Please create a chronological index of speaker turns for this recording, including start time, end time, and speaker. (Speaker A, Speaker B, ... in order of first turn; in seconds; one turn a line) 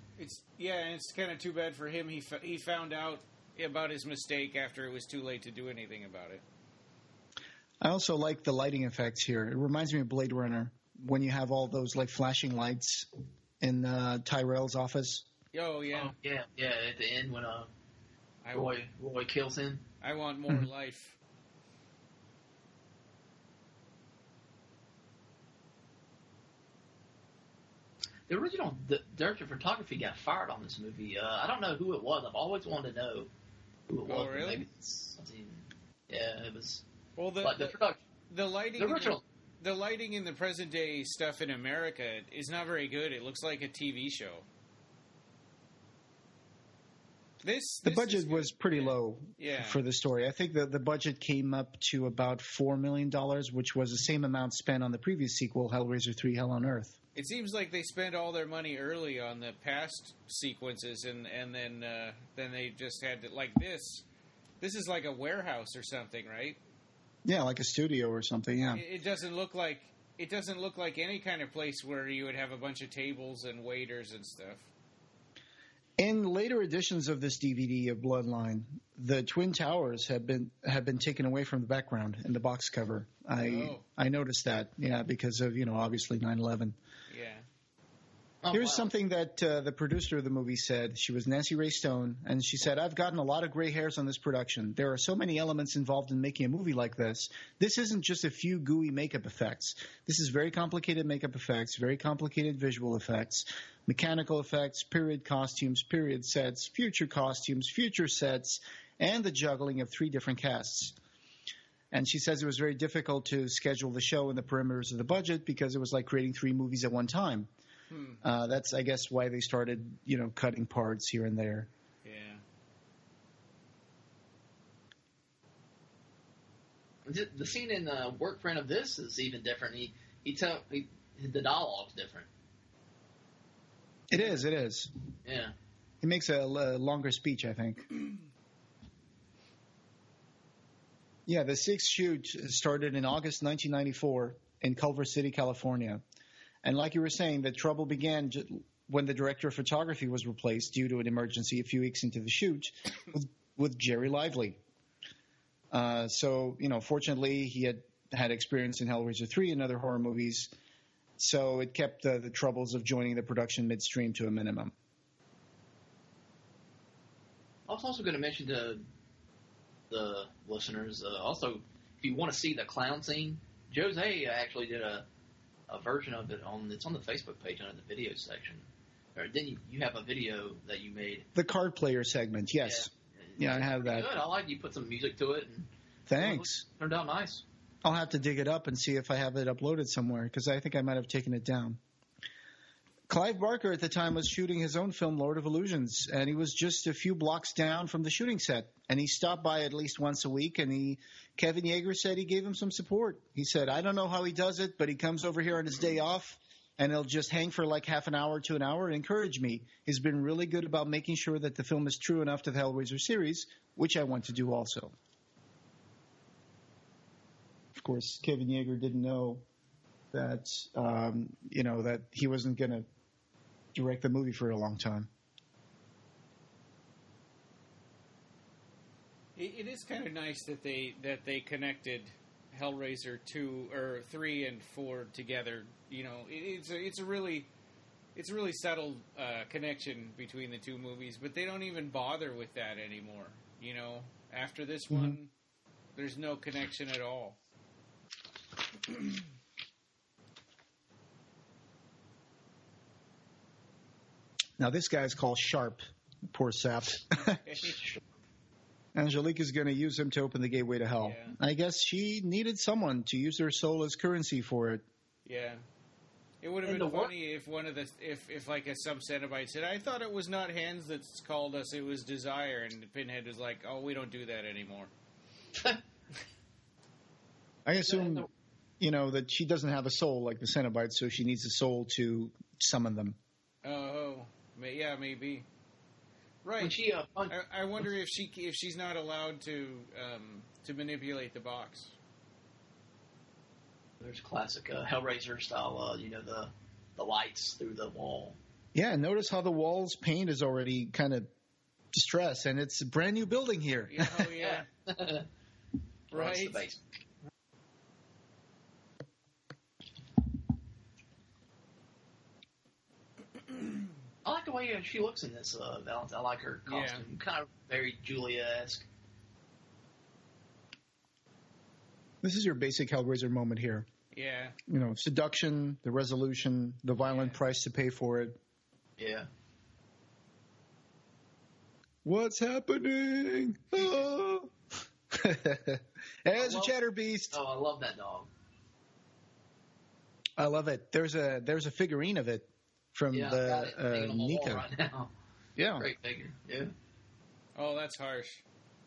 Speaker A: 0.2-6.4
Speaker B: 7.8-13.1
Speaker B: 13.6-15.3
Speaker A: 15.5-16.1
Speaker C: 15.9-17.7
Speaker A: 18.4-18.7
Speaker C: 18.5-19.8
Speaker A: 20.0-21.2
Speaker C: 28.3-33.3
Speaker C: 33.9-36.8
Speaker A: 34.0-34.6
Speaker A: 37.2-37.8
Speaker C: 37.4-38.0
Speaker A: 38.3-44.5
Speaker C: 38.8-39.2
Speaker A: 47.4-49.8
Speaker B: 47.8-57.0
Speaker A: 57.1-64.0
Speaker A: 64.6-66.6
Speaker B: 67.2-68.8
Speaker A: 68.7-74.7
Speaker B: 76.0-86.7
Speaker A: 83.4-83.8
Speaker A: 87.1-87.5
Speaker C: 88.4-88.9
Speaker B: 88.5-111.0
Speaker B: 111.9-117.5
Speaker A: 117.9-118.2
Speaker B: 118.2-121.7
Speaker A: 122.0-122.4
Speaker C: 127.0-132.3
Speaker B: 134.1-134.9
Speaker C: 135.2-135.5
Speaker B: 136.0-138.0
Speaker B: 141.3-146.0
Speaker B: 146.6-154.6
Speaker B: 155.7-160.5
Speaker B: 161.2-164.7
Speaker C: 167.7-168.8
Speaker C: 169.9-175.0
Speaker C: 175.7-181.3
Speaker B: 181.3-184.1
Speaker C: 182.6-187.4
Speaker B: 186.1-186.6
Speaker B: 187.8-191.8
Speaker B: 193.1-214.9
Speaker B: 217.8-219.4
Speaker B: 220.1-222.8
Speaker B: 223.7-225.1
Speaker A: 229.3-237.5
Speaker A: 238.1-245.3
Speaker B: 244.9-245.2
Speaker A: 245.9-247.4
Speaker B: 254.6-257.4
Speaker A: 257.3-257.8
Speaker C: 257.5-258.0
Speaker B: 258.9-264.8
Speaker A: 261.0-261.4
Speaker A: 265.2-265.6
Speaker A: 266.4-274.9
Speaker C: 266.6-267.1
Speaker B: 277.6-278.3
Speaker C: 277.9-278.3
Speaker B: 278.8-283.2
Speaker A: 283.6-285.4
Speaker A: 286.4-286.8
Speaker C: 286.6-287.4
Speaker A: 287.3-291.9
Speaker C: 294.0-298.4
Speaker B: 298.7-301.3
Speaker B: 301.9-304.3
Speaker A: 303.9-304.7
Speaker C: 304.4-305.3
Speaker C: 306.1-306.8
Speaker A: 306.1-306.6
Speaker C: 314.2-318.9
Speaker A: 316.7-317.0
Speaker B: 322.2-323.9
Speaker A: 324.1-324.6
Speaker B: 324.7-328.4
Speaker A: 327.1-327.4
Speaker C: 329.0-329.3
Speaker B: 332.0-334.5
Speaker B: 335.1-337.4
Speaker C: 336.3-336.7
Speaker C: 337.3-338.3
Speaker B: 340.4-344.7
Speaker C: 343.1-345.1
Speaker B: 345.6-345.9
Speaker C: 345.8-346.7
Speaker A: 347.5-348.4